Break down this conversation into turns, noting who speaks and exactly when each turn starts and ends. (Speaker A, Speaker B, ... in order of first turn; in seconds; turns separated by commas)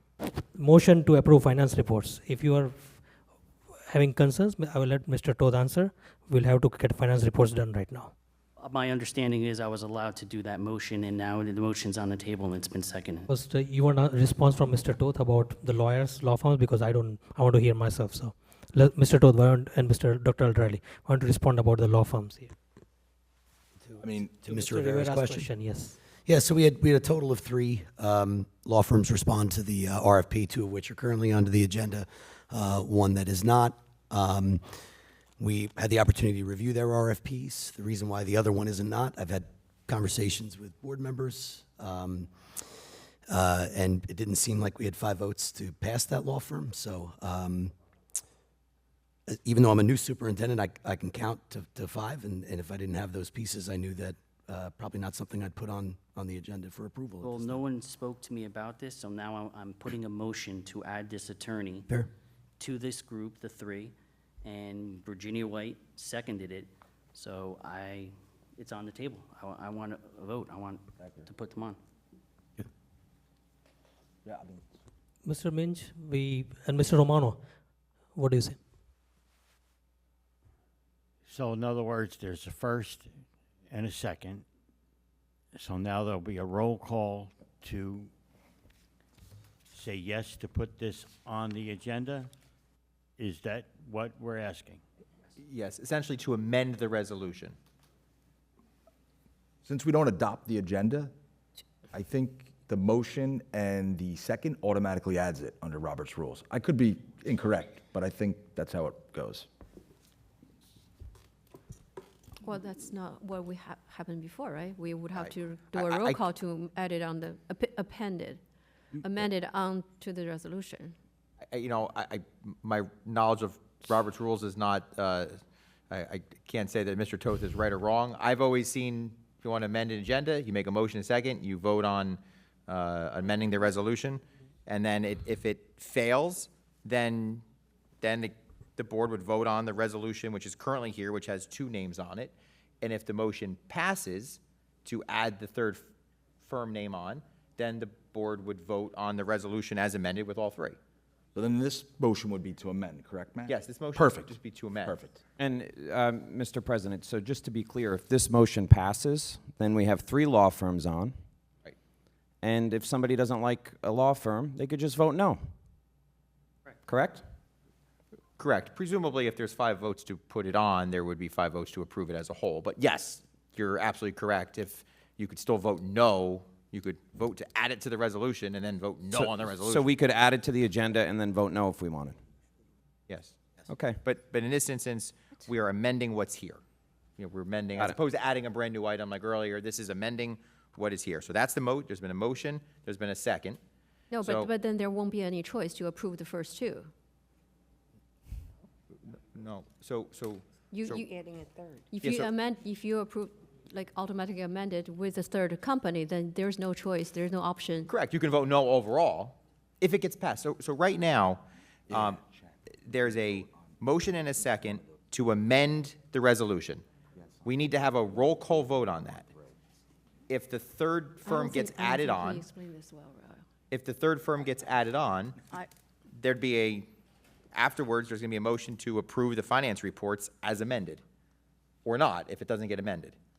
Speaker A: 0.6-3.0, Speaker A: 3.9-8.1, Speaker B: 8.6-13.3, Speaker A: 13.3-22.5, Speaker C: 24.0-24.4, Speaker D: 24.4-25.6, Speaker A: 24.4-26.0, Speaker D: 26.3-34.6, Speaker D: 35.4-42.3, Speaker D: 43.3-47.7, Speaker D: 49.3-57.6, Speaker B: 57.2-61.9, Speaker B: 62.6-71.8, Speaker C: 71.0-71.3, Speaker C: 74.2-74.6, Speaker A: 75.2-77.4, Speaker A: 78.2-78.6, Speaker E: 81.3-84.5, Speaker E: 85.6-88.1, Speaker E: 89.7-92.3, Speaker E: 93.2-94.8, Speaker F: 95.4-97.5, Speaker C: 99.7-101.1, Speaker C: 101.9-109.5, Speaker G: 112.4-118.4, Speaker F: 115.2-116.2, Speaker G: 119.0-121.0, Speaker F: 121.5-125.4, Speaker F: 125.9-137.4, Speaker F: 138.0-145.9, Speaker F: 146.4-150.8, Speaker C: 151.3-155.2, Speaker F: 153.5-155.0, Speaker H: 155.4-161.1, Speaker H: 162.4-165.4, Speaker H: 166.9-167.2, Speaker F: 168.4-179.9, Speaker H: 179.1-182.2, Speaker F: 183.1-183.4, Speaker H: 183.7-184.0, Speaker F: 184.0-186.6, Speaker F: 187.2-193.6, Speaker G: 194.1-196.9, Speaker F: 194.2-194.5, Speaker F: 199.1-201.1, Speaker G: 200.7-201.1, Speaker G: 201.9-207.9, Speaker F: 202.0-202.3, Speaker F: 207.9-212.2, Speaker C: 211.9-212.4, Speaker F: 212.8-216.8, Speaker F: 217.4-219.3, Speaker F: 220.3-222.5, Speaker G: 221.2-223.4, Speaker F: 223.7-225.4, Speaker F: 226.2-226.9, Speaker F: 227.5-231.0, Speaker F: 231.8-233.2